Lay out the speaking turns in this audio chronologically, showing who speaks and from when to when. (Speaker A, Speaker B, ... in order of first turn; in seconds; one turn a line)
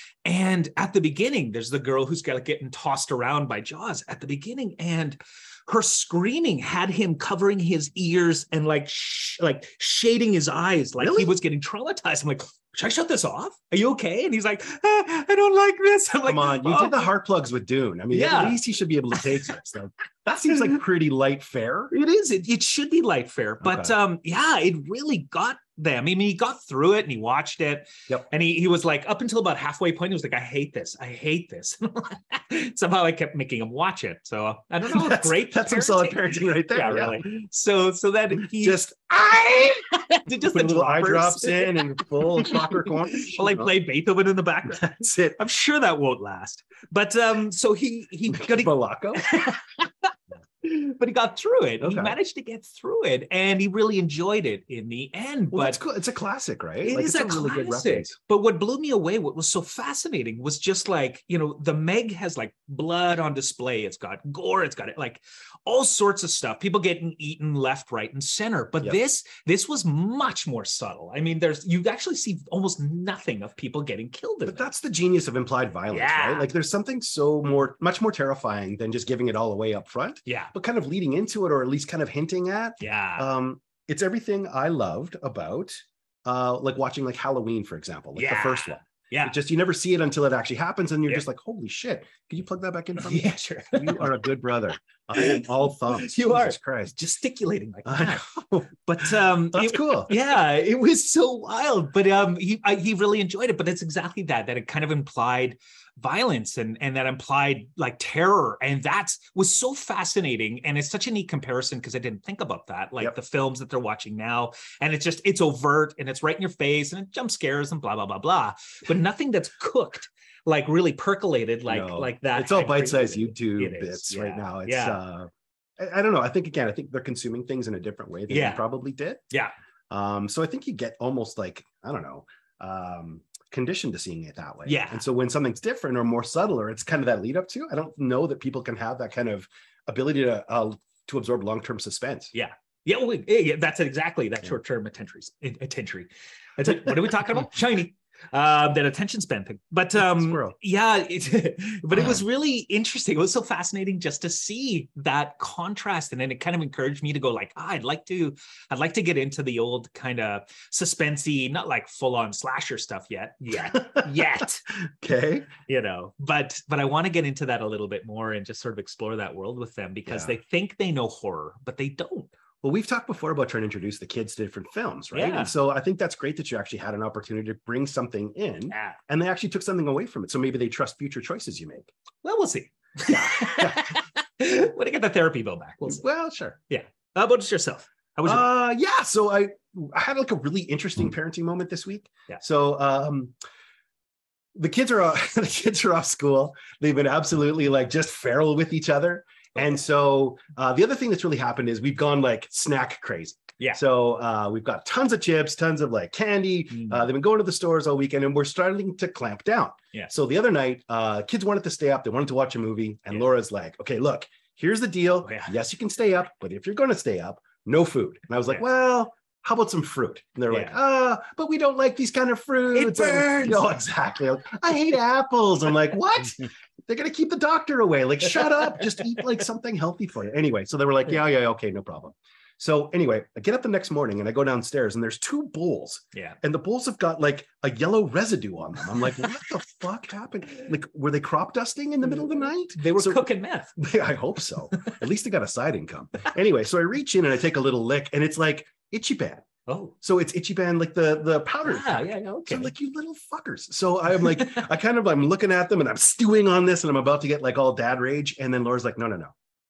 Speaker A: 0.2-17.0
Speaker B: 11.0-11.3
Speaker B: 16.2-21.9
Speaker A: 18.1-18.6
Speaker A: 19.2-19.5
Speaker A: 21.9-38.8
Speaker B: 23.6-23.9
Speaker B: 34.8-37.3
Speaker B: 38.4-39.8
Speaker A: 40.0-44.8
Speaker B: 40.5-43.7
Speaker B: 44.7-45.4
Speaker A: 45.4-55.8
Speaker B: 48.3-49.4
Speaker B: 51.8-52.2
Speaker B: 55.5-58.1
Speaker A: 56.8-74.7
Speaker B: 74.5-97.0
Speaker A: 75.9-76.5
Speaker A: 82.8-83.3
Speaker A: 88.2-89.4
Speaker A: 93.0-94.1
Speaker A: 95.2-98.3
Speaker B: 97.8-100.2
Speaker A: 98.8-125.0
Speaker B: 121.7-129.2
Speaker A: 128.3-128.6
Speaker B: 129.9-142.3
Speaker A: 134.7-135.0
Speaker A: 142.3-164.6
Speaker B: 146.7-147.0
Speaker B: 150.0-150.6
Speaker B: 151.9-152.2
Speaker B: 163.7-164.3
Speaker B: 165.0-165.5
Speaker A: 165.7-172.3
Speaker B: 170.1-170.4
Speaker B: 172.6-181.9
Speaker A: 175.1-175.5
Speaker A: 178.7-179.0
Speaker A: 182.2-186.0
Speaker B: 183.1-184.0
Speaker B: 185.9-186.6
Speaker A: 186.7-188.5
Speaker B: 188.2-193.3
Speaker B: 194.6-249.5
Speaker A: 206.7-207.1
Speaker A: 215.2-215.5
Speaker A: 220.5-220.8
Speaker A: 222.7-223.7
Speaker A: 242.0-243.7
Speaker A: 249.7-249.9
Speaker B: 250.0-259.3
Speaker A: 251.6-252.7
Speaker A: 254.2-254.7